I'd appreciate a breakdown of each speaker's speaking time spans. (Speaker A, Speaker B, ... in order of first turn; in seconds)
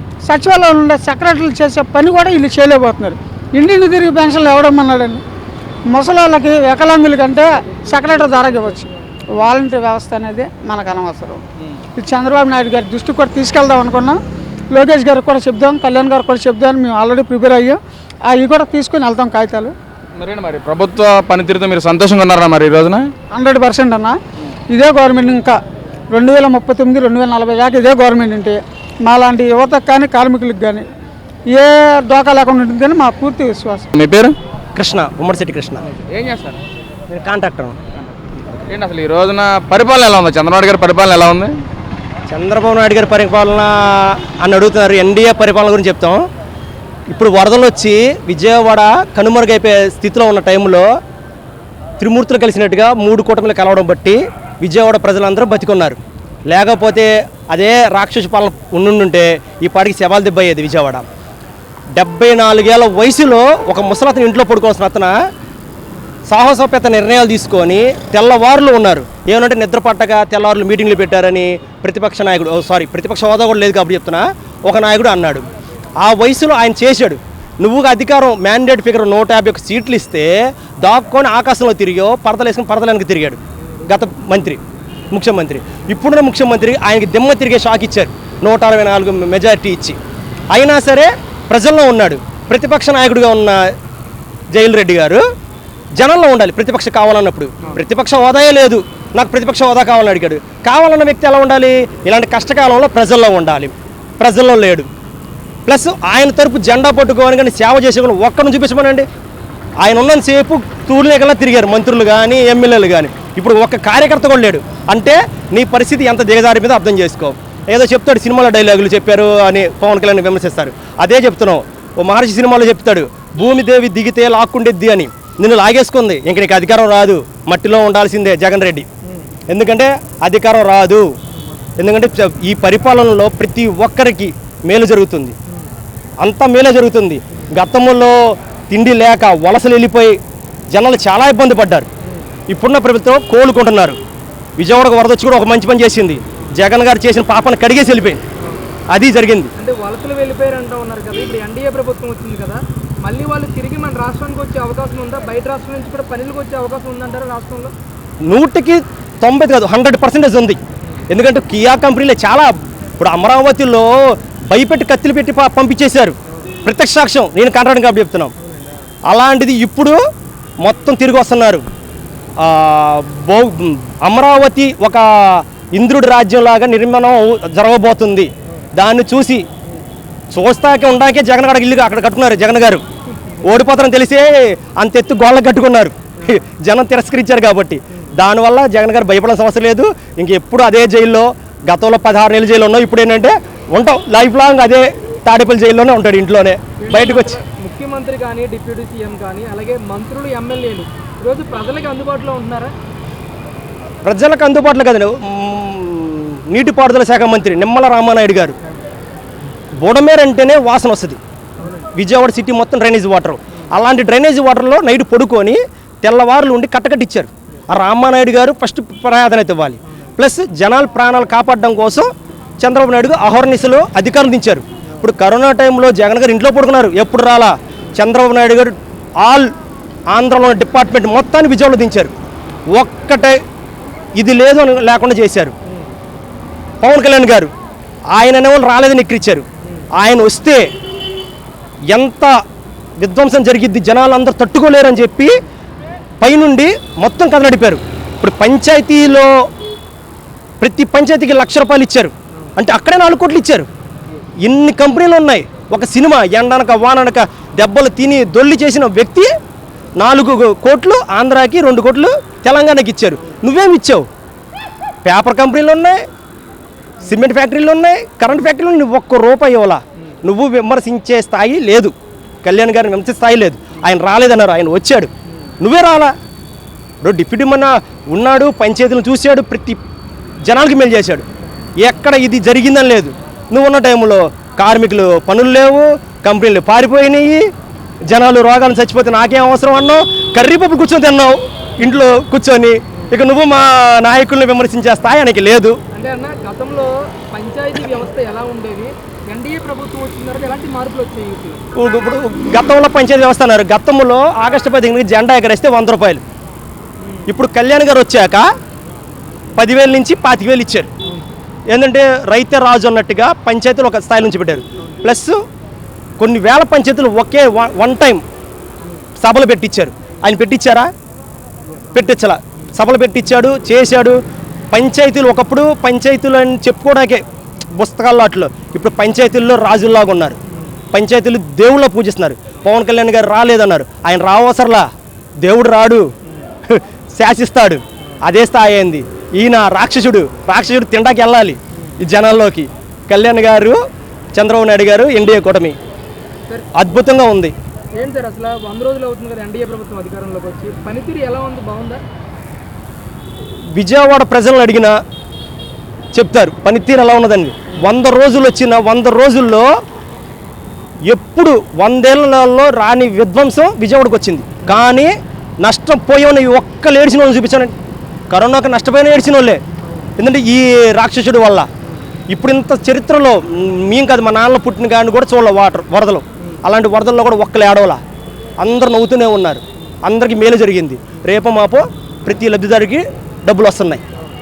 Speaker A: 0.2-5.2, 5.9-11.4, 12.0-14.2, 14.7-19.7, 23.3-24.1, 24.7-25.6, 26.1-30.8, 31.5-33.9
Speaker B: 20.1-23.1, 33.9-34.4, 35.9-36.6, 38.7-41.5
Speaker C: 34.7-35.8, 37.1-37.8, 42.3-46.2, 47.1-50.9, 52.0-61.0, 61.9-65.2, 66.3-75.5, 76.0-90.0, 90.5-93.7, 94.5-95.2, 96.0-104.9, 105.7-109.0, 109.8-128.9, 129.5-131.1, 131.8-135.3, 136.2-138.2, 138.7-140.2, 140.7-141.9, 142.5-144.0, 144.6-148.2, 148.9-149.5, 158.3-160.6, 161.1-163.9, 164.5-168.3, 169.1-170.0, 170.6-171.7, 172.4-179.5, 180.3-182.8, 183.4-197.4, 204.0-208.5, 209.8-211.2, 211.9-229.5, 230.1-232.1, 232.7-233.4, 234.2-235.5, 236.8-237.5, 238.1-240.7, 241.9-242.3, 243.0-245.3, 246.2-249.3, 250.6-253.7, 254.4-259.3, 260.0-264.1, 265.0-266.0, 267.0-276.1, 277.0-279.8, 280.4-281.2, 281.8-287.4, 288.1-295.8, 301.7-306.2, 307.3-308.4, 309.6-310.9, 311.7-315.4, 316.2-318.2, 319.2-320.9, 321.9-324.2, 324.7-330.4, 330.9-334.9, 335.4-336.1, 336.7-343.8, 344.3-345.8, 346.7-347.5, 353.7-355.0, 356.1-359.7, 361.1-367.7, 368.3-369.6, 370.2-371.7, 372.3-378.0, 378.6-384.0
Speaker D: 149.6-157.7, 196.8-202.7, 211.6-211.9, 295.9-301.6, 314.8-315.1, 348.0-352.0